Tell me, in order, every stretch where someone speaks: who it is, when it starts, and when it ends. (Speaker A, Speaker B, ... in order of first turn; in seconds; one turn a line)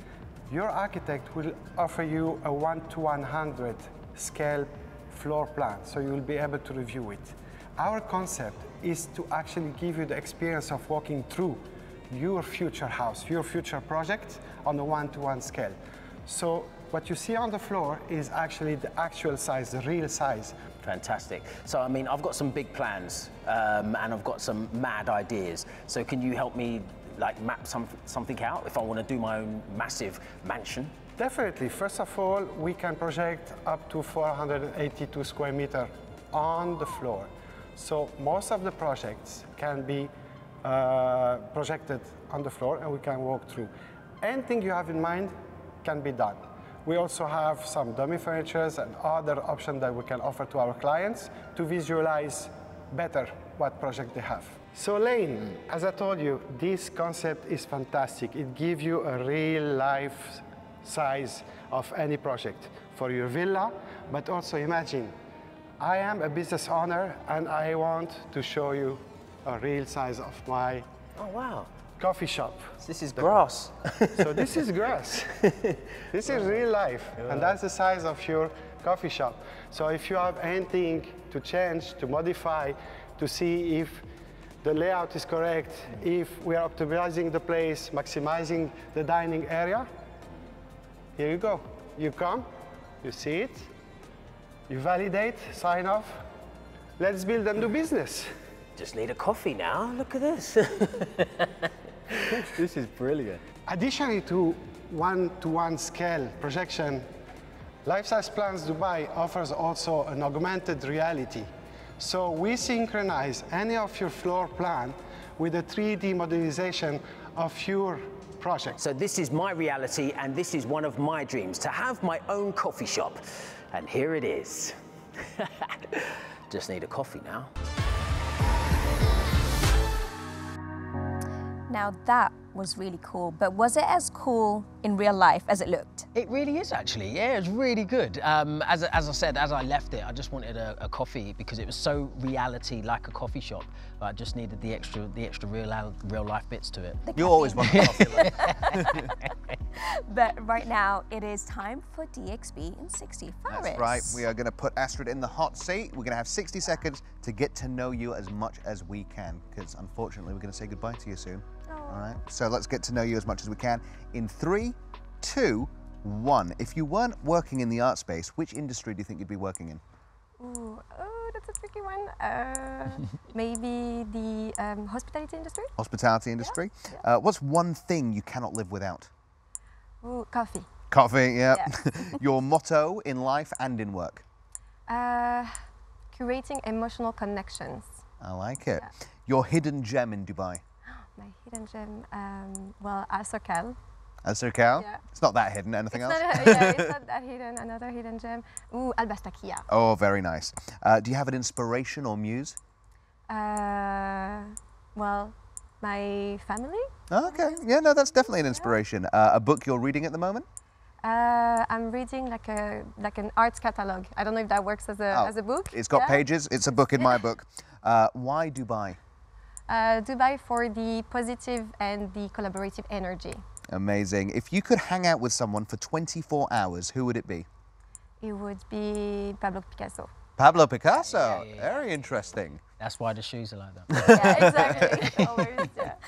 Speaker A: 0.5-20.6
Speaker B: 20.8-30.9
Speaker A: 31.2-40.1
Speaker A: 40.6-43.7
Speaker A: 44.2-45.3
Speaker A: 45.8-65.1
Speaker A: 65.8-70.8
Speaker B: 71.2-71.7
Speaker A: 72.0-73.4
Speaker B: 72.8-74.5
Speaker A: 74.2-75.4
Speaker A: 76.1-84.0
Speaker B: 77.2-77.6
Speaker A: 84.6-89.9
Speaker A: 91.2-92.5
Speaker A: 93.0-93.7
Speaker A: 94.7-96.2
Speaker A: 97.0-98.3
Speaker B: 98.8-103.4
Speaker A: 103.7-107.1
Speaker A: 107.8-111.5
Speaker A: 112.0-118.8
Speaker B: 118.8-123.2
Speaker B: 123.7-124.7
Speaker B: 125.3-127.5
Speaker C: 131.7-136.1
Speaker B: 136.1-147.0
Speaker C: 147.0-149.0
Speaker D: 147.1-148.9
Speaker B: 147.6-149.3
Speaker C: 149.8-154.2
Speaker D: 153.5-169.8
Speaker E: 161.7-162.2
Speaker E: 170.4-175.7
Speaker D: 175.8-179.1
Speaker E: 176.4-177.0
Speaker E: 180.0-180.7
Speaker D: 180.9-184.2
Speaker E: 184.9-185.5
Speaker E: 186.1-188.0
Speaker D: 188.2-190.6
Speaker E: 191.1-193.8
Speaker D: 194.2-196.8
Speaker E: 194.7-195.0
Speaker E: 195.9-199.7
Speaker D: 199.7-202.6
Speaker E: 203.3-208.7
Speaker D: 207.1-210.4
Speaker E: 211.0-216.2
Speaker D: 215.1-219.0
Speaker E: 216.9-217.2
Speaker E: 219.7-223.4
Speaker D: 223.7-227.5
Speaker E: 228.2-230.1
Speaker D: 230.4-232.6
Speaker B: 230.9-235.2
Speaker D: 234.0-234.6
Speaker C: 234.1-235.1
Speaker E: 234.1-236.0